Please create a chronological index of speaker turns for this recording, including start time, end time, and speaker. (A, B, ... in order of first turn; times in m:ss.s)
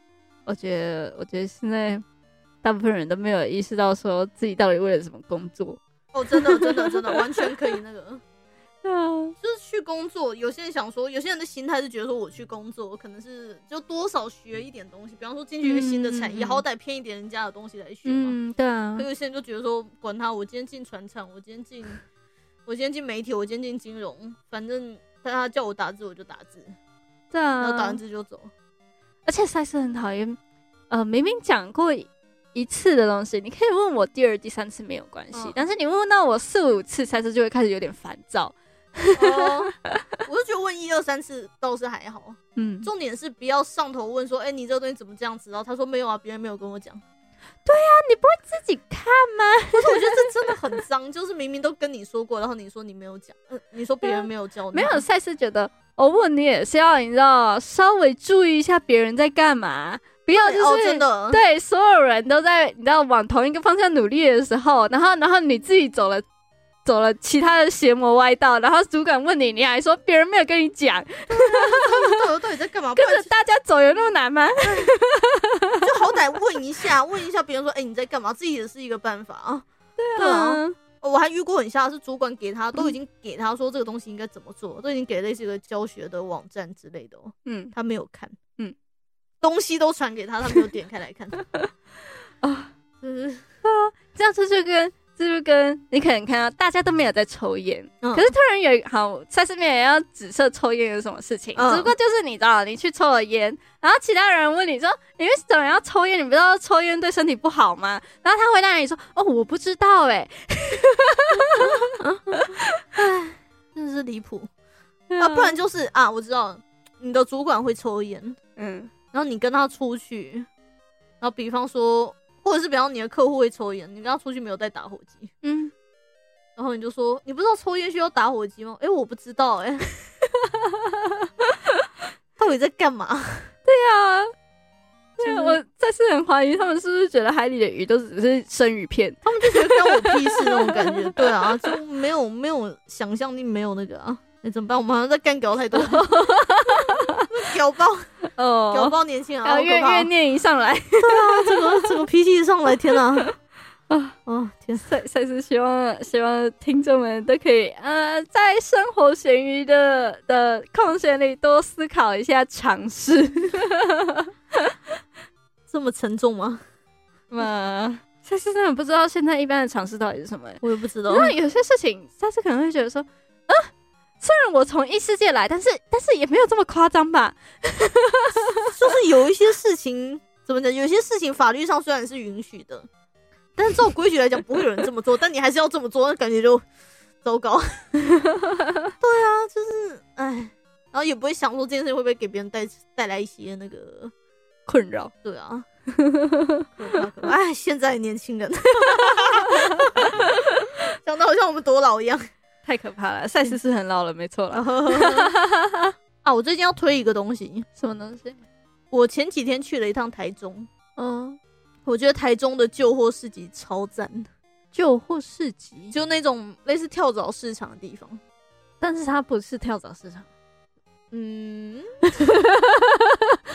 0:00.4-0:02.0 A
0:02.6-0:05.8 A
0:06.1-0:08.2 B
0:06.3-0:07.5 A
0:08.8-0:09.3 A
0:09.4-0:18.4 B
0:15.6-0:16.6 A
0:18.0-0:19.1 A
0:19.0-0:22.0 B
0:22.6-0:26.8 B
0:27.3-0:28.0 A
0:27.6-0:28.5 B
0:29.2-0:30.4 A
0:30.9-0:40.0 A
0:35.3-0:35.6 B
0:39.2-0:39.7 B
0:40.2-0:47.0 B
0:42.6-0:42.9 A
0:47.6-0:50.3 A
0:49.8-0:55.0 B
0:54.7-1:06.2 A
1:00.3-1:01.4 B
1:06.8-1:12.2 A
1:11.3-1:13.3 B
1:13.0-1:15.9 A
1:14.6-1:14.9 B
1:15.8-1:28.4 B
1:20.0-1:20.8 A
1:27.4-1:27.7 A
1:29.4-1:31.4 B
1:32.4-1:32.7 A
1:33.0-1:33.4 B
1:33.6-1:52.8 A
1:38.0-1:38.3 B
1:41.6-1:41.9 B
1:51.6-1:54.5 B
1:55.1-1:55.5 A
1:55.2-1:58.4 B
1:58.6-1:58.9 A
1:59.1-2:00.5 B
2:01.2-2:05.3 B
2:05.4-2:05.7 A
2:06.6-2:09.9 B
2:10.4-2:11.2 A
2:12.4-2:13.5 B
2:13.6-2:14.3 A
2:15.2-2:15.6 B
2:15.2-2:21.7 A
2:19.2-2:26.1 B
2:25.7-2:27.3 A
2:27.3-2:28.1 B
2:28.3-2:32.0 A
2:28.7-2:30.1 B
2:31.0-2:33.3 B
2:33.9-2:34.2 A
2:34.2-2:34.8 B
2:34.8-2:44.7 A
2:45.7-2:46.6 B
2:47.3-2:58.7 A
2:50.6-2:51.3 B
2:58.6-3:02.9 B
3:03.6-3:06.6 B
3:07.2-3:07.9 B
3:08.1-3:08.9 A
3:09.0-3:14.1 B
3:14.6-3:15.1 A
3:15.2-3:15.6 B
3:15.9-3:16.7 A
3:16.8-3:22.3 B
3:18.8-3:20.3 A
3:22.6-3:25.9 A
3:24.5-3:25.3 B
3:26.2-3:27.6 B
3:27.8-3:28.4 A
3:28.9-3:30.7 B
3:31.0-3:31.4 A
3:31.8-3:34.3 B
3:34.7-3:35.9 A
3:35.9-3:38.2 B
3:38.8-3:40.3 A
3:41.1-3:41.9 B
3:42.2-3:43.4 A